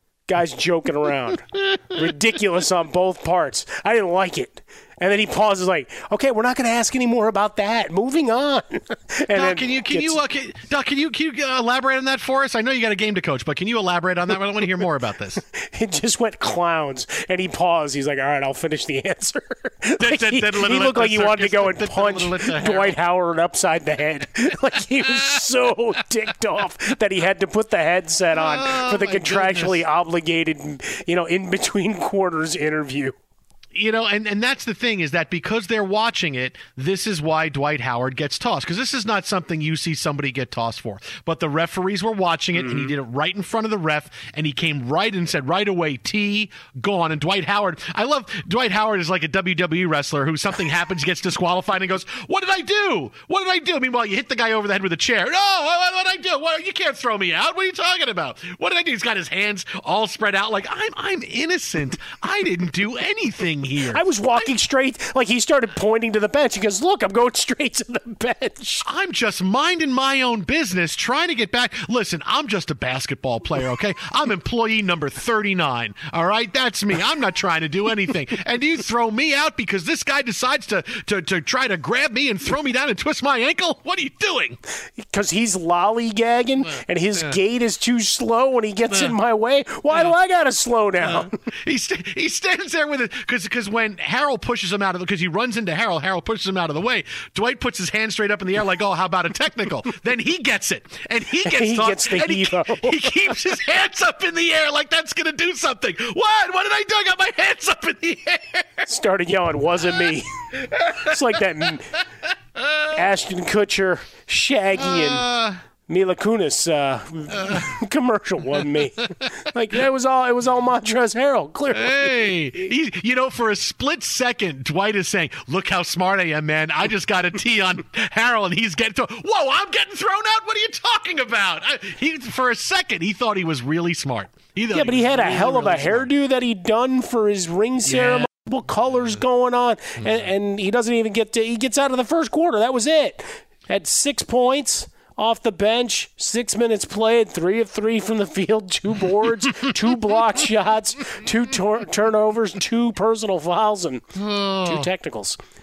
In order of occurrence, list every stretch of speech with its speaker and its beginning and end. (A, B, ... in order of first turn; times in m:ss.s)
0:00.3-0:10.2 A
0:09.3-0:15.4 B
0:15.5-0:33.1 A
0:20.0-0:23.0 B
0:28.3-0:29.8 B
0:33.7-1:04.5 B
0:42.5-0:42.9 A
1:03.9-1:08.8 A
1:08.8-1:24.6 B
1:25.0-1:31.3 A
1:26.7-1:27.3 B
1:31.0-1:48.6 B
1:41.4-1:43.1 A
1:48.8-1:50.3 A
1:51.0-1:52.0 A
1:52.6-1:52.8 B
1:52.9-1:55.3 A
1:54.8-1:55.6 B
1:55.9-2:02.5 A
2:01.7-2:16.1 B
2:14.7-2:34.0 A
2:17.9-2:18.3 B
2:20.0-2:20.2 B
2:34.1-2:34.9 B
2:34.6-2:35.4 A